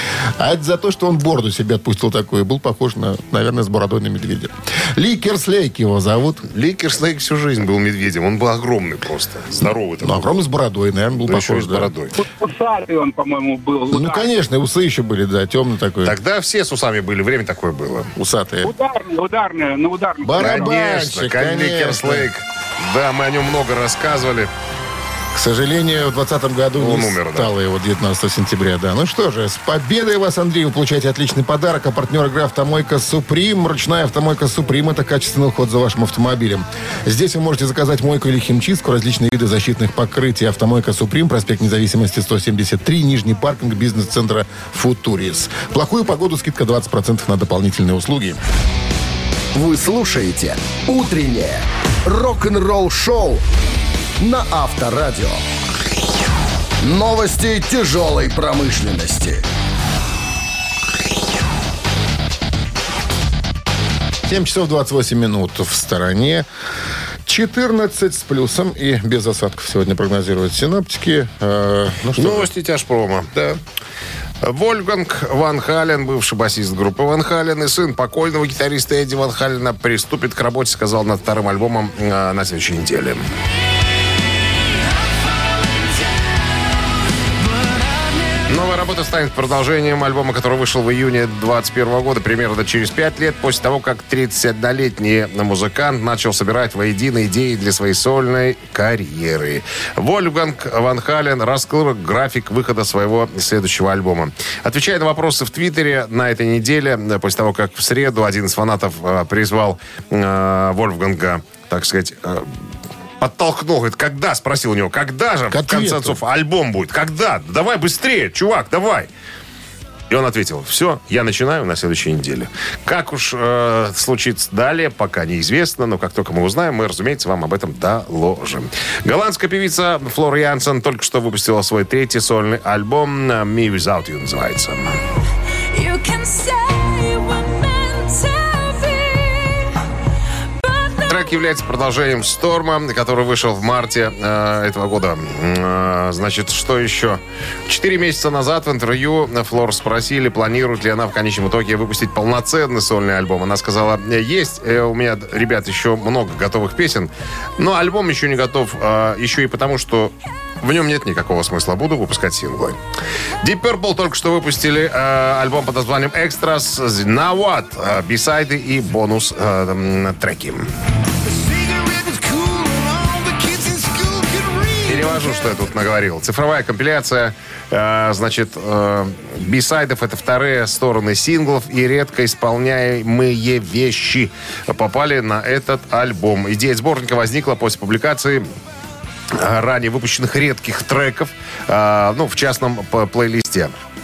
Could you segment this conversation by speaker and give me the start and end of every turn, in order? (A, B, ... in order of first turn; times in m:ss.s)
0:00.4-0:06.4 A
0:06.5-0:10.4 B
0:10.0-0:11.9 A
0:11.2-0:12.1 B
0:12.2-0:14.3 C
0:13.9-0:16.2 A
0:16.0-0:18.1 B
0:18.2-0:18.7 A
0:18.6-0:20.7 C
0:20.2-0:22.3 A
0:20.4-0:24.5 B
0:25.3-0:48.4 A
0:26.8-0:27.5 B
0:49.5-0:53.4 D
0:54.2-0:55.4 D
0:56.8-0:59.4 D
1:04.3-1:06.5 A
1:07.3-1:12.5 A
1:12.2-1:13.3 B
1:13.3-1:13.6 A
1:14.4-1:23.3 B
1:28.5-1:52.6 B
1:53.2-1:59.1 B
1:55.5-1:56.2 A
2:00.1-2:15.0 B
2:15.7-2:19.7 E
2:20.6-2:21.4 E
2:21.1-2:42.8 B
2:43.4-2:50.7 B
2:51.6-2:55.0 A
2:54.8-3:08.5 B
3:09.3-3:13.7 B